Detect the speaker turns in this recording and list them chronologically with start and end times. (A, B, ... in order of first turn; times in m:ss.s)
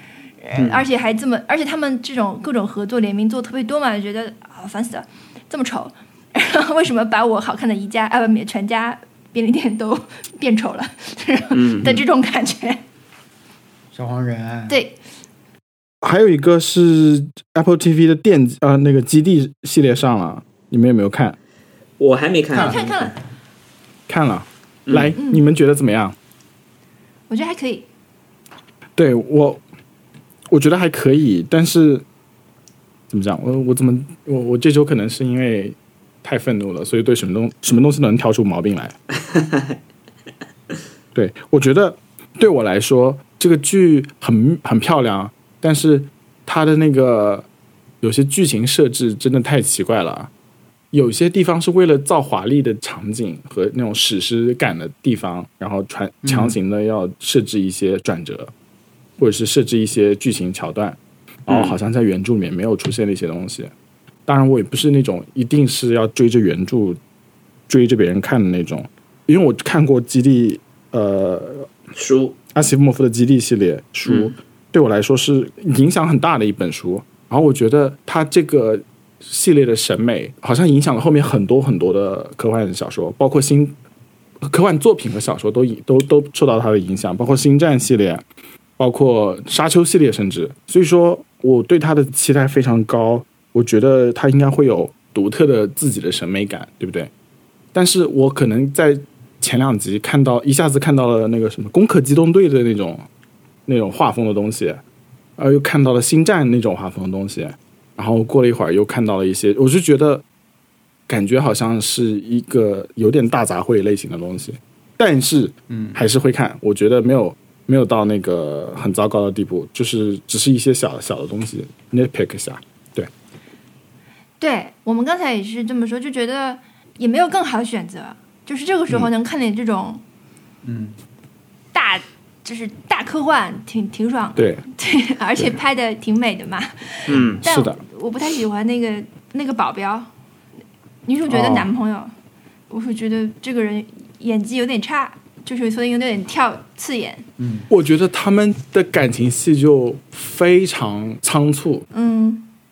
0:00.4-0:12.8 A
0:00.6-0:00.8 B
0:11.5-0:12.0 B
0:13.9-0:14.8 C
0:14.7-0:15.0 A
0:16.0-0:21.4 D
0:22.0-0:22.8 B
0:22.5-0:23.2 A
0:22.5-0:23.2 C
0:24.1-0:26.1 D
0:25.2-0:25.4 A
0:27.3-0:27.8 A
0:29.0-0:29.6 D
0:30.5-0:32.0 D
0:33.1-0:38.9 D
0:41.1-0:47.4 D
0:48.0-0:50.3 D
0:50.9-0:58.5 D
0:56.2-0:56.6 C
0:59.2-1:03.7 D
1:01.5-1:01.8 B
1:04.2-1:07.0 D
1:07.7-1:11.7 D
1:12.0-1:12.3 B
1:12.5-1:23.8 D
1:14.0-1:14.3 B
1:24.4-1:28.2 D
1:28.8-1:37.1 D
1:37.7-1:43.0 D
1:43.7-1:44.8 D
1:45.4-1:50.2 D
1:51.1-2:03.1 D
1:55.7-1:56.0 C
2:04.4-2:10.0 A
2:10.6-2:11.0 C
2:11.7-2:20.1 A
2:14.4-2:14.6 D
2:17.1-2:17.4 B
2:17.4-2:17.8 D
2:21.0-2:22.1 A
2:21.3-2:21.7 D
2:22.7-2:27.2 A
2:27.4-2:27.7 C
2:27.7-2:31.8 D
2:31.9-2:32.5 A